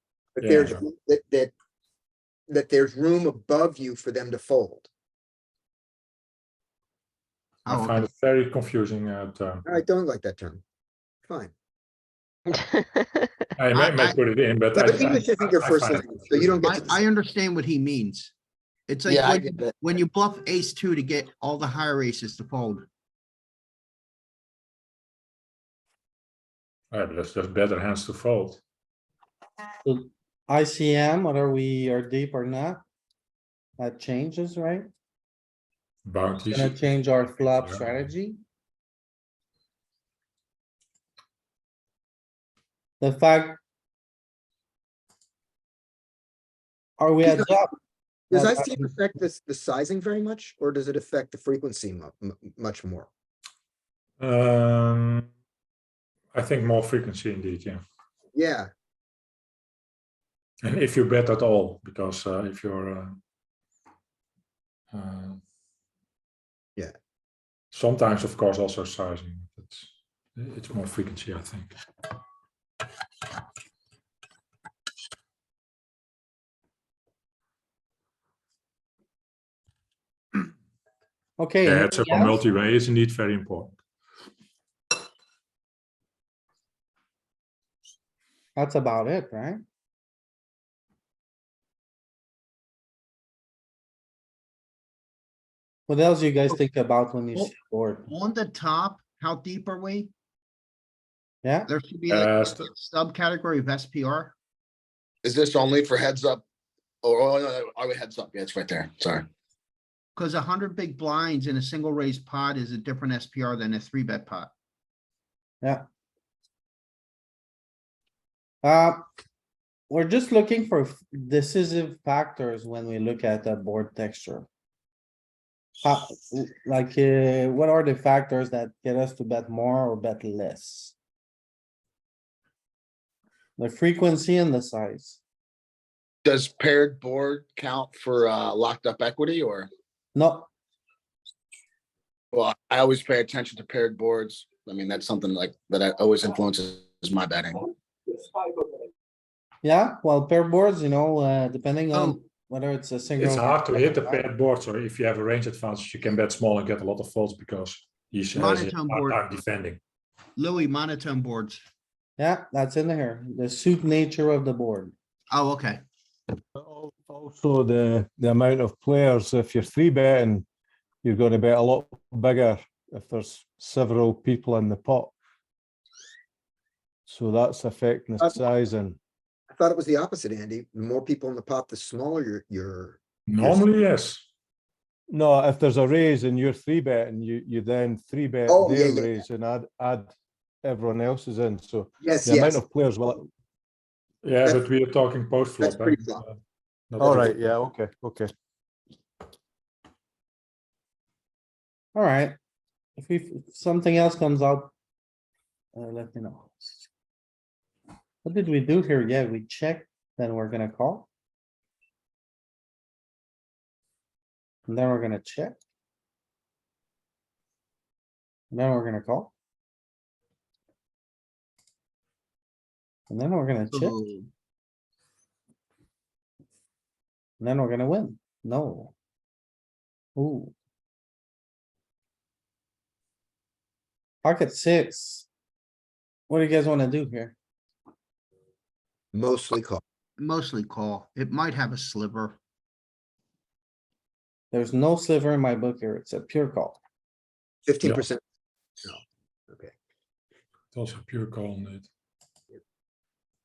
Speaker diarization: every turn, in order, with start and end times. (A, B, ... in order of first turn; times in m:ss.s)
0:00.4-0:01.5 A
0:02.5-0:04.9 A
0:07.7-0:08.1 B
0:07.7-0:09.6 C
0:09.6-0:10.6 A
0:11.3-0:11.5 A
0:13.6-0:16.6 C
0:13.7-0:14.2 B
0:14.8-0:17.0 A
0:16.6-0:18.3 B
0:18.9-0:22.8 B
0:19.1-0:19.7 D
0:26.9-0:28.6 C
0:29.8-0:32.8 E
0:33.8-0:34.9 E
0:36.0-0:36.8 C
0:36.5-0:38.4 E
0:37.4-0:38.0 C
0:43.0-0:43.6 E
0:47.0-0:47.7 E
0:47.2-0:47.5 A
0:48.3-0:53.1 A
0:48.3-0:48.9 E
0:54.2-0:55.3 C
0:56.3-0:57.8 C
0:58.4-0:58.7 A
1:00.6-1:03.2 C
1:04.9-1:05.4 C
1:07.7-1:11.7 C
1:21.4-1:22.4 E
1:21.6-1:23.8 C
1:28.6-1:29.6 E
1:35.9-1:38.1 E
1:38.1-1:40.1 B
1:41.4-1:41.7 E
1:41.7-1:44.3 B
1:42.1-1:42.7 C
1:45.2-1:46.4 D
1:47.0-1:49.3 D
1:50.2-1:54.5 B
1:58.6-1:59.0 E
1:59.9-2:04.5 E
2:05.8-2:11.0 E
2:13.6-2:15.2 E
2:16.2-2:19.7 D
2:20.2-2:20.5 E
2:22.3-2:27.7 D
2:29.6-2:34.2 E
2:31.9-2:32.2 B
2:33.2-2:39.8 C
2:38.4-2:39.2 B
2:40.4-2:41.6 B
2:42.2-2:44.9 E
2:45.3-2:45.8 B
2:46.6-2:50.4 F
2:51.0-2:55.1 F
2:57.1-2:59.0 F
2:59.5-3:03.6 A
3:03.3-3:04.2 C
3:05.1-3:13.3 F
3:08.5-3:09.2 A
3:12.0-3:12.6 A
3:14.2-3:16.3 C
3:15.6-3:16.2 A
3:16.9-3:17.4 C
3:17.0-3:18.3 F
3:22.0-3:22.4 E
3:23.0-3:24.7 E
3:25.8-3:26.8 E
3:28.2-3:31.1 E
3:34.7-3:35.6 E
3:38.5-3:39.3 E
3:43.1-3:43.9 E
3:43.7-3:44.3 B
3:47.4-3:48.9 E
3:50.2-3:50.5 E
3:54.2-3:55.3 E
3:56.3-3:57.4 E
3:59.1-3:59.8 A
4:00.2-4:02.4 B
4:04.5-4:06.8 E
4:07.7-4:08.2 A
4:08.8-4:09.7 A
4:10.7-4:11.9 C